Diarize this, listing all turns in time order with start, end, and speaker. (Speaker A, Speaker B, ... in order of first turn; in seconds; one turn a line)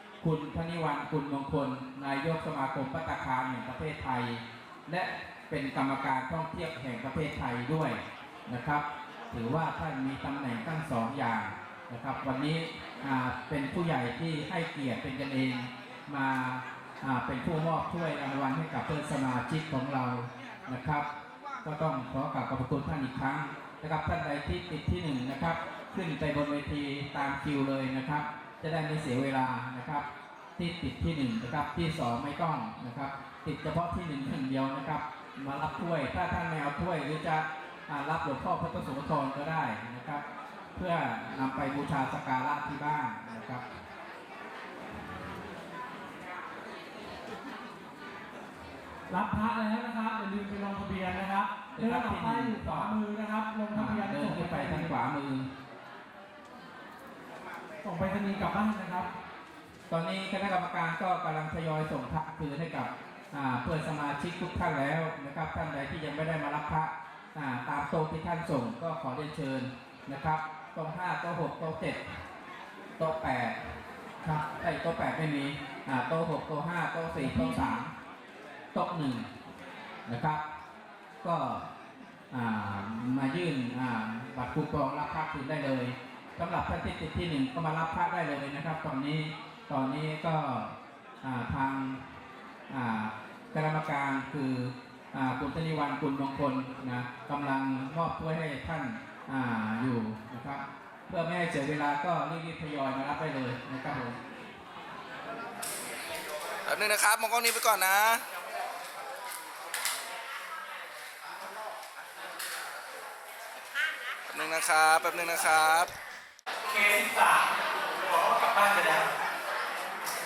Speaker A: 0.2-21.1
Speaker A: 21.6-30.1
Speaker A: 30.6-40.2
Speaker A: 40.7-43.6
Speaker B: 49.1-54.9
Speaker A: 51.8-52.9
Speaker A: 53.7-55.5
Speaker B: 57.8-59.1
Speaker A: 59.9-72.0
Speaker A: 73.0-73.6
Speaker A: 74.2-77.9
Speaker B: 77.2-77.8
Speaker A: 78.7-79.3
Speaker A: 80.0-80.4
Speaker A: 81.2-81.7
Speaker A: 82.3-92.0
Speaker A: 92.7-104.2
Speaker C: 106.7-108.2
Speaker C: 114.3-115.9
Speaker D: 116.6-119.1